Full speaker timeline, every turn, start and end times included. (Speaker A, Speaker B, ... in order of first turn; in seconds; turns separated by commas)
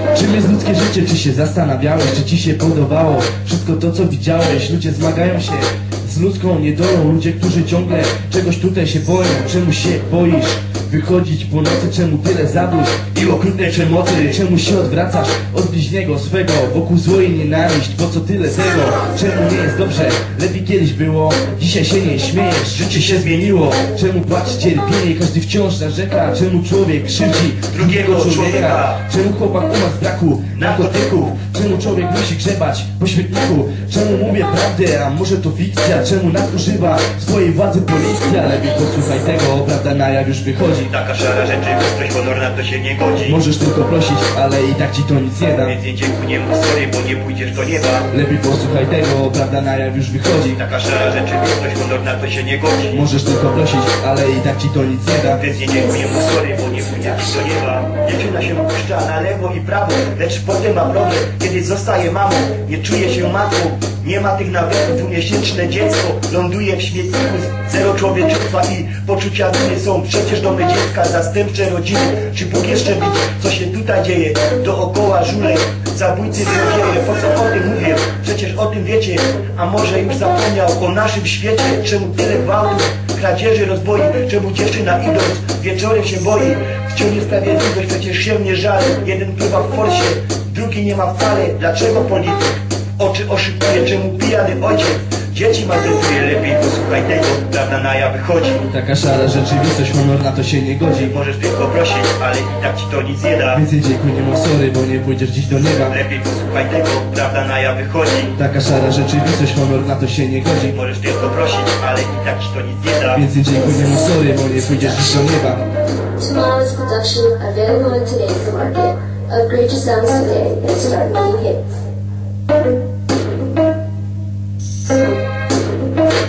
Speaker A: 0.1-40.9, Speaker B: 13.1-14.4, Speaker B: 22.8-23.7, Speaker B: 27.7-29.0, Speaker B: 30.5-31.3, Speaker B: 40.8-43.4, Speaker A: 43.3-45.8, Speaker B: 45.6-48.1, Speaker A: 48.1-50.6, Speaker B: 50.5-53.0, Speaker A: 52.9-55.4, Speaker B: 55.3-98.7, Speaker A: 98.7-101.1, Speaker B: 101.0-103.6, Speaker A: 103.5-106.0, Speaker B: 105.9-108.4, Speaker A: 108.4-110.8, Speaker B: 110.7-113.2, Speaker A: 113.1-115.7, Speaker C: 116.2-121.7